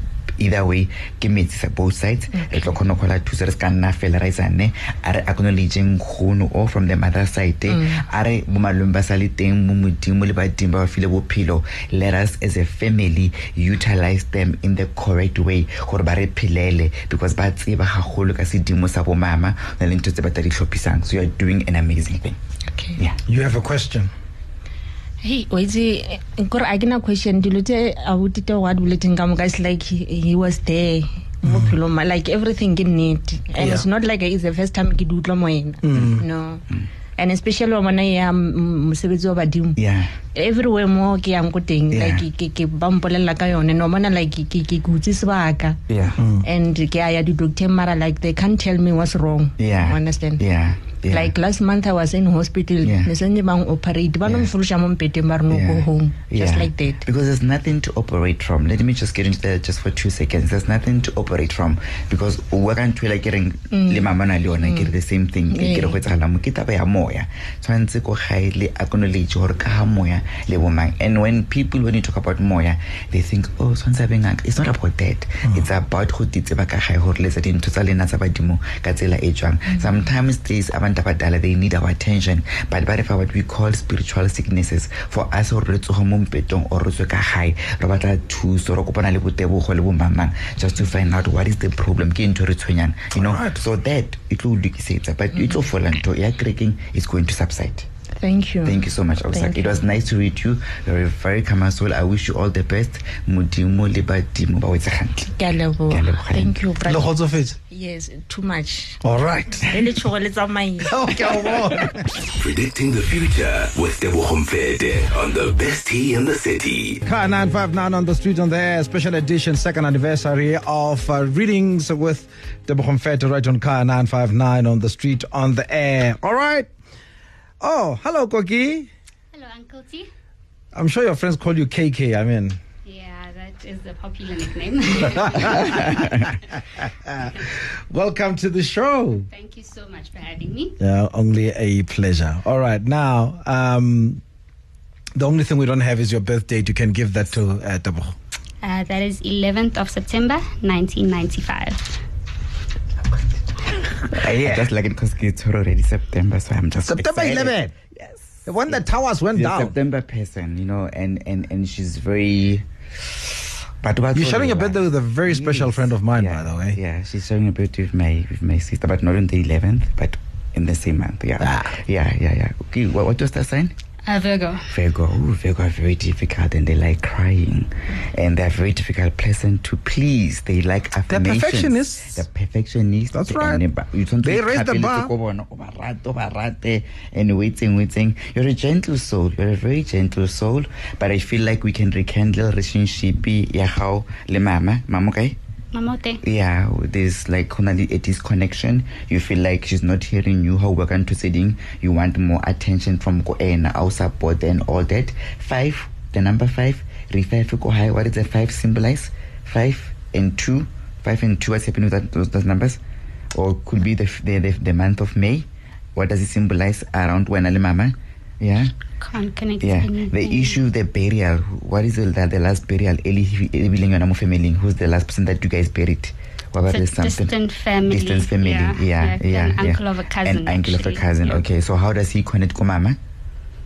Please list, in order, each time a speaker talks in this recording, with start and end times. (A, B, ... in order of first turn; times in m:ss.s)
0:00.4-0:22.4 A
0:02.3-0:02.6 B
0:07.7-0:08.0 B
0:22.7-0:23.0 B
0:23.3-0:24.1 C
0:25.2-0:36.6 B
0:33.6-0:33.8 C
0:35.8-0:36.2 C
0:37.2-0:39.8 B
0:39.8-0:40.1 A
0:40.3-0:45.8 B
0:41.9-0:42.2 A
0:45.9-0:46.2 A
0:46.2-0:46.4 C
0:46.4-0:50.4 B
0:49.6-0:51.3 A
0:51.1-0:57.0 B
0:52.8-0:53.1 A
0:54.2-0:54.5 A
0:55.5-1:37.9 A
1:03.7-1:04.9 B
1:05.5-1:06.0 B
1:33.1-1:33.6 C
1:38.2-1:39.8 B
1:38.6-1:45.4 A
1:45.3-1:49.0 B
1:45.9-1:46.6 A
1:46.8-1:47.6 C
1:49.0-1:49.9 C
1:49.7-1:51.4 B
1:50.9-1:52.1 C
1:52.3-1:57.0 D
1:57.0-2:06.7 C
2:07.6-2:08.9 C
2:09.3-2:10.1 E
2:10.7-2:12.6 C
2:12.8-2:16.2 E
2:15.6-2:16.2 A
2:17.0-2:19.3 C
2:19.3-2:20.8 E
2:20.8-2:24.2 C
2:25.1-2:28.1 C
2:28.6-2:32.0 E
2:34.1-2:53.7 A
2:34.1-2:34.7 C
2:36.8-2:37.7 C
2:38.4-2:39.7 C
2:44.1-2:46.8 C
2:51.4-2:51.8 C
2:54.1-2:54.7 E
2:54.7-3:15.4 A
3:01.1-3:02.2 C
3:03.1-3:03.6 C
3:04.2-3:05.1 C
3:15.7-3:16.2 E
3:16.2-3:32.8 A
3:33.3-3:38.7 A
3:39.0-3:40.6 E
3:39.6-3:53.0 A
3:46.7-3:51.4 E